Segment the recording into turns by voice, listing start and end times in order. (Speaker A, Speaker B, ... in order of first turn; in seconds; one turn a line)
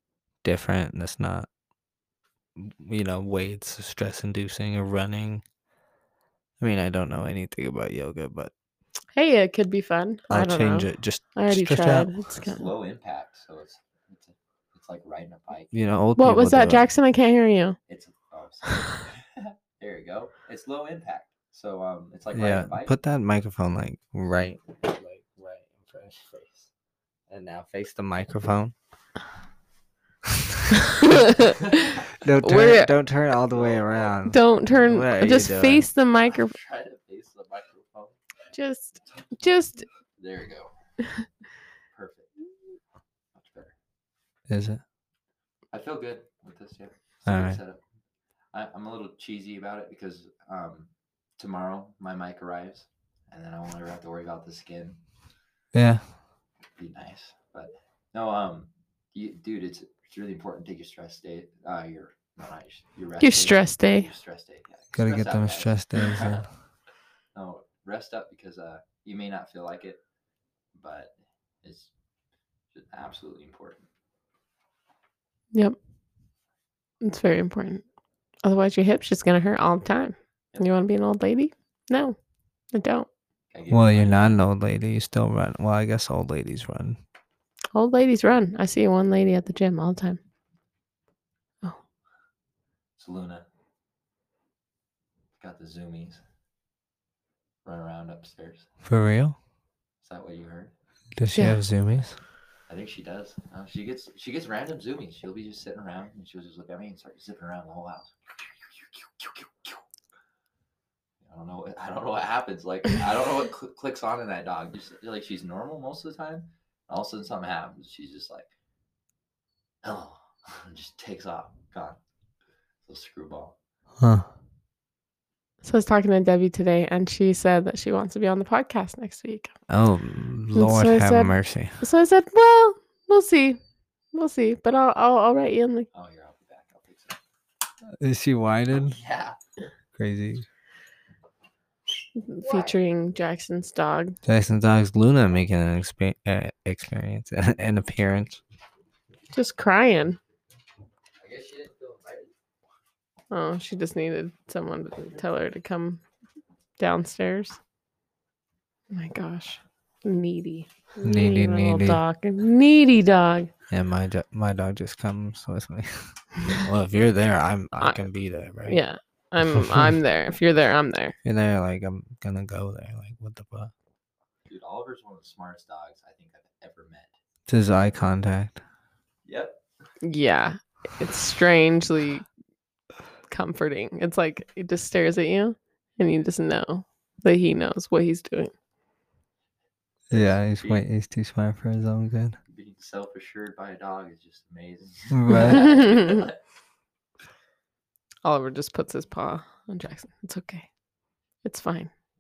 Speaker A: 0.4-1.5
Speaker A: 2.6-5.4
Speaker A: 6.6-8.5
Speaker B: 9.2-12.7
Speaker A: 10.3-12.1
Speaker C: 12.4-15.9
Speaker A: 15.7-16.9
Speaker B: 16.2-17.8
Speaker C: 17.9-22.9
Speaker A: 22.3-26.7
Speaker A: 27.3-28.7
Speaker B: 30.9-32.9
Speaker A: 32.1-35.9
Speaker C: 33.3-34.2
Speaker B: 34.3-36.6
Speaker C: 36.2-38.2
Speaker B: 38.5-39.9
Speaker C: 40.2-40.7
Speaker C: 41.9-42.3
Speaker C: 43.3-43.8
Speaker A: 44.5-44.8
Speaker C: 45.7-47.8
Speaker A: 47.3-47.6
Speaker C: 48.5-55.0
Speaker A: 55.7-56.1
Speaker C: 56.8-66.5
Speaker B: 63.2-64.1
Speaker A: 65.0-66.5
Speaker C: 67.3-70.0
Speaker C: 70.7-71.9
Speaker C: 72.7-73.9
Speaker B: 77.0-77.8
Speaker B: 78.4-82.2
Speaker B: 82.7-83.1
Speaker C: 83.5-84.4
Speaker A: 83.7-87.0
Speaker B: 87.7-90.2
Speaker C: 93.0-93.5
Speaker C: 95.4-96.2
Speaker C: 97.7-98.7
Speaker A: 98.8-99.4
Speaker C: 100.0-100.7
Speaker A: 101.2-102.2
Speaker B: 101.3-101.6
Speaker C: 102.7-109.8
Speaker C: 111.2-118.5
Speaker C: 119.8-122.0
Speaker C: 122.8-123.6
Speaker A: 124.0-124.3
Speaker B: 125.6-129.5
Speaker A: 129.7-131.8
Speaker B: 130.6-133.6
Speaker B: 134.1-135.9
Speaker C: 135.9-137.2
Speaker A: 138.0-139.0
Speaker C: 138.7-139.4
Speaker A: 140.0-140.5
Speaker B: 142.2-144.2
Speaker A: 144.3-148.4
Speaker B: 149.3-150.2
Speaker C: 151.2-152.3
Speaker B: 153.3-156.0
Speaker B: 156.8-157.6
Speaker B: 158.9-163.5
Speaker A: 161.0-162.0
Speaker A: 163.7-168.8
Speaker B: 168.7-171.2
Speaker A: 169.5-169.9
Speaker A: 171.2-173.7
Speaker C: 174.5-177.2
Speaker A: 177.5-178.6
Speaker C: 179.2-179.6
Speaker B: 180.0-182.3
Speaker B: 183.3-188.5
Speaker A: 190.1-192.4
Speaker C: 190.1-190.8
Speaker C: 192.5-196.4
Speaker A: 195.1-195.6
Speaker B: 195.3-196.3
Speaker B: 198.2-200.7
Speaker B: 201.4-201.9